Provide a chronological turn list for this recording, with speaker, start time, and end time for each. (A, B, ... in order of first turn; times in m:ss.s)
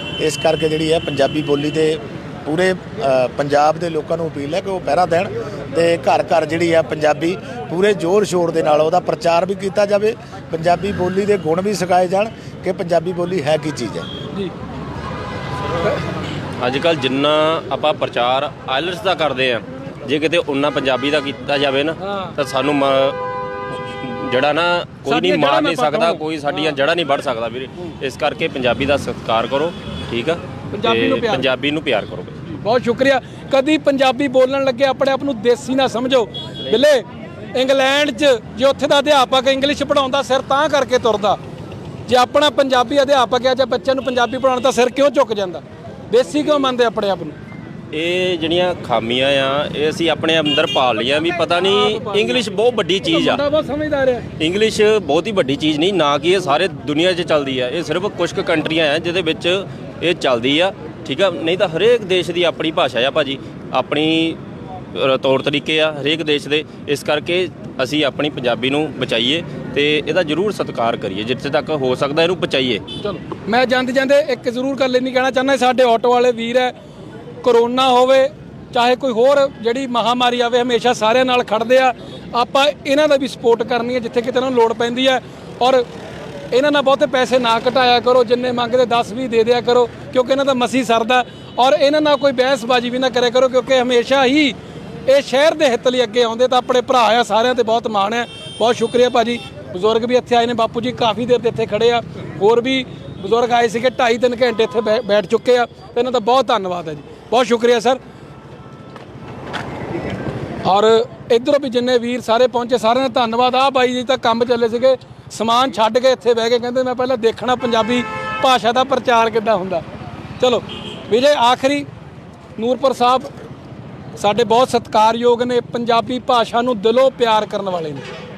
0:00.2-0:14.1 A
0:16.6-0:23.2 B
0:22.0-0:22.3 C
0:23.9-0:32.4 B
0:25.0-0:26.7 C
0:30.7-0:31.4 C
0:32.5-0:41.4 C
0:42.1-0:47.4 C
0:47.9-0:53.4 B
0:51.6-0:52.4 C
0:53.1-0:54.3 C
0:54.4-1:04.4 B
1:04.9-1:12.8 B
1:13.0-1:16.7 C
1:17.4-1:25.8 C
1:26.5-1:34.6 C
1:35.1-1:48.0 C
1:50.6-1:59.8 C
2:00.4-2:01.9 C
2:02.6-2:03.3 C
2:04.2-2:08.0 C